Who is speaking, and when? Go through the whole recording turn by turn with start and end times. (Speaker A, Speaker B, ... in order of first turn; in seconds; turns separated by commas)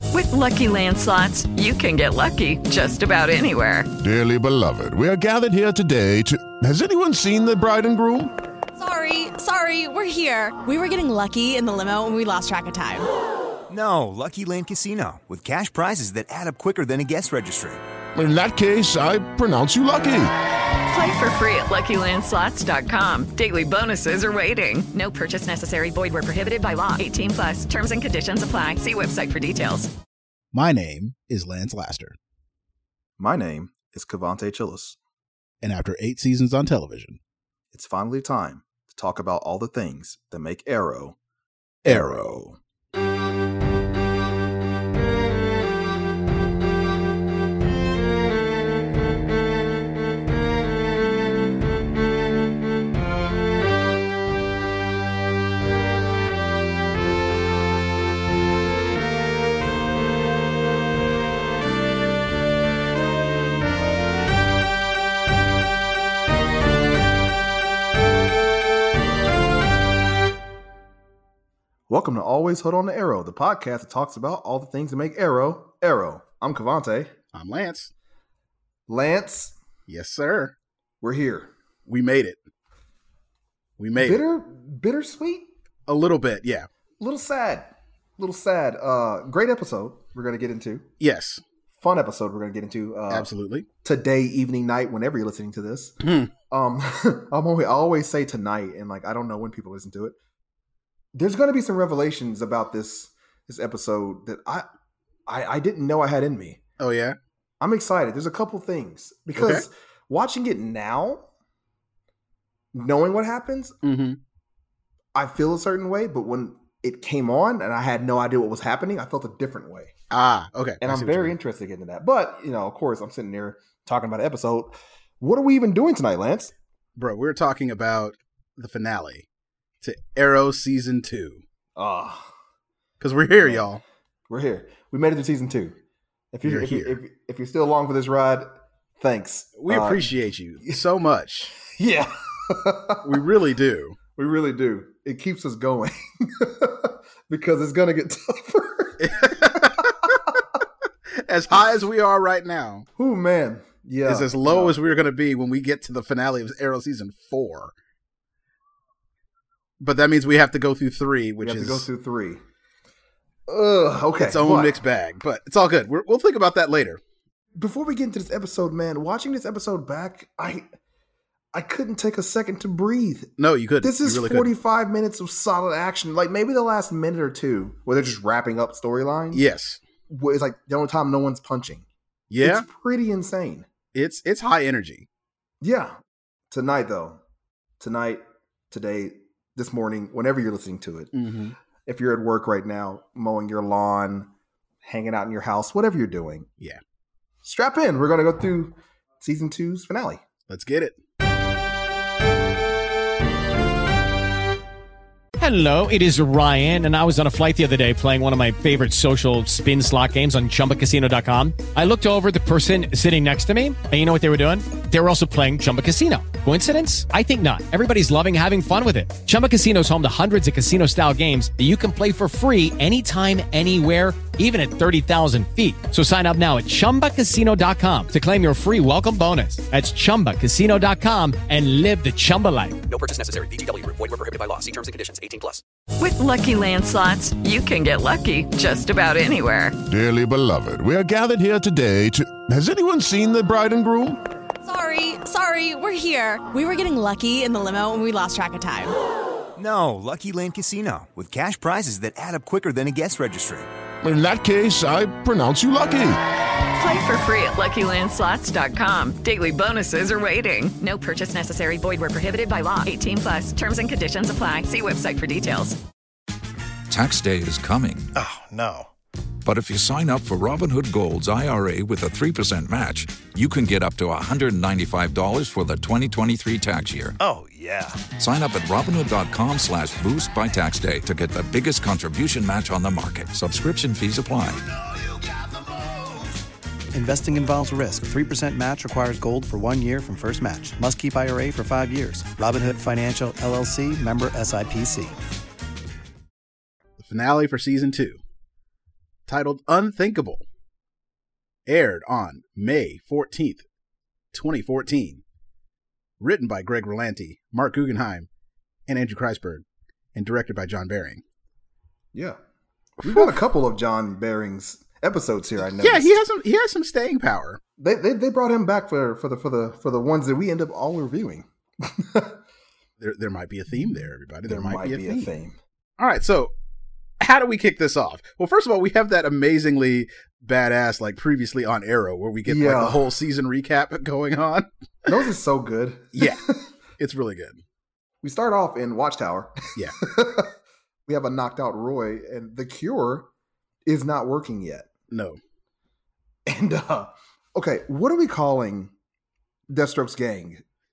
Speaker A: 0.1-3.9, Speaker B: 4.0-8.3, Speaker C: 8.8-13.1, Speaker D: 13.7-17.8, Speaker B: 18.1-20.3, Speaker A: 20.9-29.9, Speaker E: 30.5-32.1, Speaker F: 33.2-35.0, Speaker E: 35.6-37.2, Speaker F: 37.7-41.1, Speaker E: 41.8-42.5, Speaker F: 41.8-42.5, Speaker F: 71.9-77.1, Speaker E: 77.3-77.9, Speaker F: 78.9-79.5, Speaker E: 79.9-80.5, Speaker F: 81.0-81.5, Speaker E: 81.9-82.4, Speaker E: 83.8-84.2, Speaker F: 84.0-85.5, Speaker E: 85.9-86.7, Speaker F: 87.0-90.9, Speaker E: 91.0-91.4, Speaker F: 91.8-93.3, Speaker E: 93.1-93.7, Speaker F: 93.8-96.0, Speaker E: 96.0-96.3, Speaker F: 96.5-100.2, Speaker F: 101.1-104.7, Speaker F: 105.3-106.6, Speaker E: 106.8-107.2, Speaker F: 107.6-111.3, Speaker E: 109.4-109.6, Speaker F: 112.7-113.8, Speaker E: 113.8-114.2, Speaker F: 115.1-119.9, Speaker E: 120.1-121.3, Speaker F: 120.8-126.5, Speaker E: 127.0-129.2, Speaker E: 129.8-131.4, Speaker F: 131.8-132.3, Speaker E: 133.0-133.8, Speaker F: 133.4-133.7, Speaker F: 134.3-135.8, Speaker F: 136.3-140.1, Speaker E: 136.4-137.0, Speaker E: 139.6-141.6, Speaker F: 141.6-143.2, Speaker E: 143.0-144.0, Speaker F: 144.2-150.3, Speaker E: 149.0-150.2, Speaker E: 151.2-152.8, Speaker F: 153.0-154.8, Speaker E: 154.1-157.7, Speaker E: 159.8-161.9, Speaker F: 161.4-162.4, Speaker F: 163.5-164.8, Speaker E: 164.2-167.0, Speaker F: 167.5-170.6, Speaker F: 171.5-179.4, Speaker E: 173.4-174.5, Speaker E: 179.3-179.8, Speaker F: 180.1-181.8, Speaker E: 182.3-182.7, Speaker F: 182.4-183.7, Speaker E: 183.9-185.1, Speaker F: 185.6-186.0, Speaker F: 186.5-187.2, Speaker F: 187.8-191.1, Speaker E: 191.1-191.6, Speaker F: 191.8-194.3, Speaker F: 194.8-196.5, Speaker F: 197.4-200.2, Speaker E: 200.5-201.0, Speaker G: 205.4-232.8, Speaker H: 232.9-235.6, Speaker A: 236.0-239.8, Speaker B: 239.8-244.2, Speaker C: 244.6-248.9, Speaker D: 249.6-253.7, Speaker B: 254.0-256.2, Speaker A: 256.7-265.8, Speaker I: 266.9-268.1, Speaker J: 268.1-268.9, Speaker I: 269.4-277.2, Speaker J: 277.2-278.0, Speaker I: 278.1-284.6, Speaker J: 286.9-295.1, Speaker E: 297.0-298.2, Speaker E: 299.3-300.4, Speaker E: 301.6-303.6, Speaker E: 304.3-305.2, Speaker E: 306.2-308.3, Speaker E: 308.9-309.6, Speaker E: 310.1-311.2, Speaker F: 313.0-316.1, Speaker E: 313.0-313.3, Speaker E: 315.7-317.6, Speaker F: 317.8-322.4, Speaker E: 323.0-325.3, Speaker F: 323.9-325.6, Speaker E: 326.0-326.5, Speaker E: 327.2-335.1, Speaker F: 332.4-333.0, Speaker F: 335.1-336.6, Speaker E: 336.1-336.4, Speaker E: 337.0-337.6, Speaker F: 338.2-340.5, Speaker F: 341.1-343.3, Speaker F: 343.9-344.9, Speaker E: 345.1-345.4, Speaker F: 346.4-348.9, Speaker F: 349.7-350.6